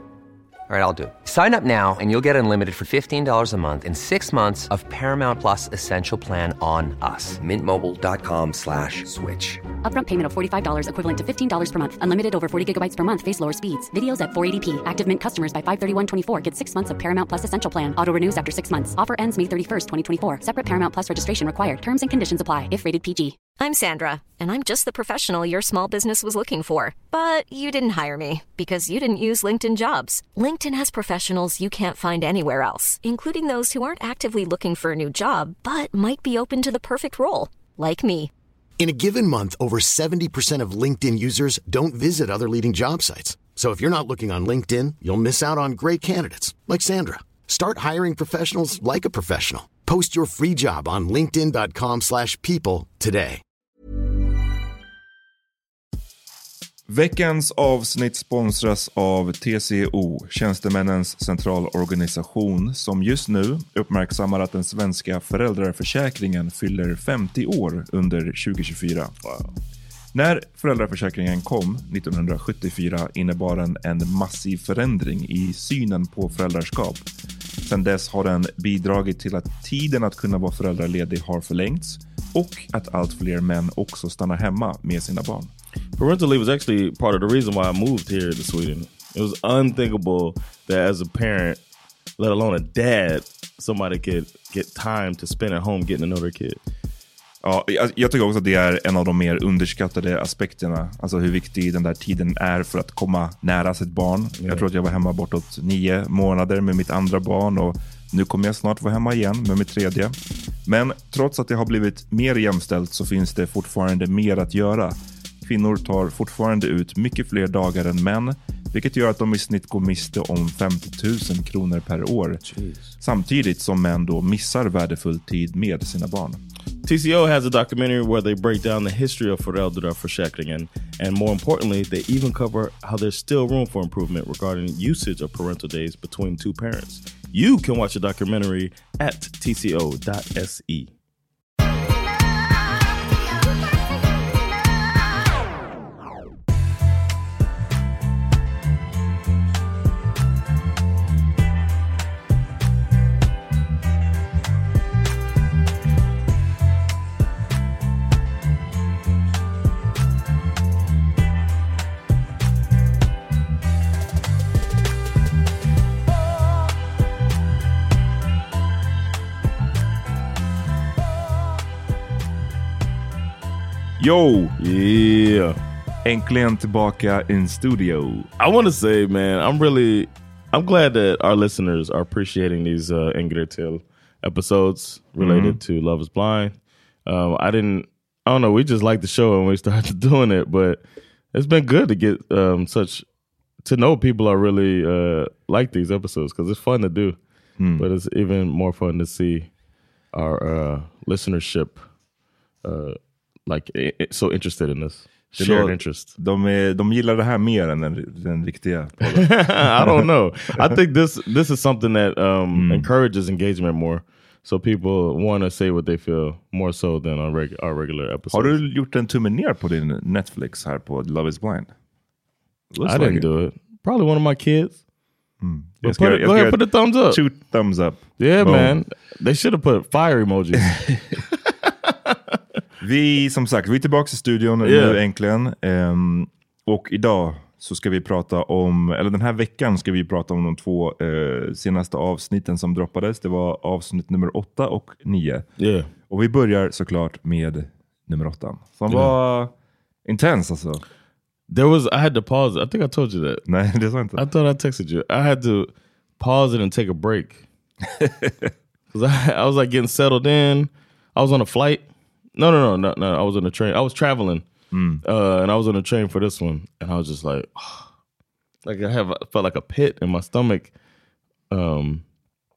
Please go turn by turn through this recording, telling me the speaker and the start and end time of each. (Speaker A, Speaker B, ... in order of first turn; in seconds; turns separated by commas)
Speaker A: 0.7-9.6, Speaker B: 9.8-23.4, Speaker C: 23.5-38.3, Speaker D: 38.8-53.4, Speaker E: 56.9-69.1, Speaker F: 69.2-69.5, Speaker E: 70.1-77.0, Speaker E: 77.7-85.5, Speaker F: 86.0-91.6, Speaker F: 92.2-96.6, Speaker E: 97.4-122.4, Speaker F: 104.4-104.6, Speaker F: 122.5-122.9, Speaker E: 123.0-126.4, Speaker F: 126.8-140.9, Speaker E: 174.0-174.5, Speaker F: 174.6-175.6, Speaker E: 176.0-178.3, Speaker F: 178.4-186.5, Speaker E: 185.2-185.6, Speaker F: 187.1-190.8, Speaker F: 191.3-193.0, Speaker F: 193.6-197.2, Speaker E: 197.6-197.9, Speaker F: 197.8-199.5, Speaker F: 200.1-201.8, Speaker F: 202.6-206.1, Speaker E: 205.3-210.8, Speaker F: 209.0-218.6, Speaker E: 212.5-212.9, Speaker E: 218.3-221.7, Speaker E: 222.7-223.3, Speaker F: 222.8-224.8, Speaker E: 225.4-228.8, Speaker F: 225.8-227.2, Speaker F: 228.2-230.8, Speaker F: 231.7-232.4, Speaker E: 232.8-245.4, Speaker F: 234.6-235.0, Speaker F: 245.6-245.9, Speaker E: 246.1-249.5, Speaker E: 250.0-250.8, Speaker F: 251.5-253.4, Speaker E: 253.4-254.2, Speaker F: 254.2-257.4, Speaker E: 258.0-258.5, Speaker F: 258.9-261.8, Speaker F: 262.4-264.4, Speaker E: 264.7-265.0, Speaker F: 265.0-267.9, Speaker F: 268.6-270.7, Speaker F: 271.5-272.0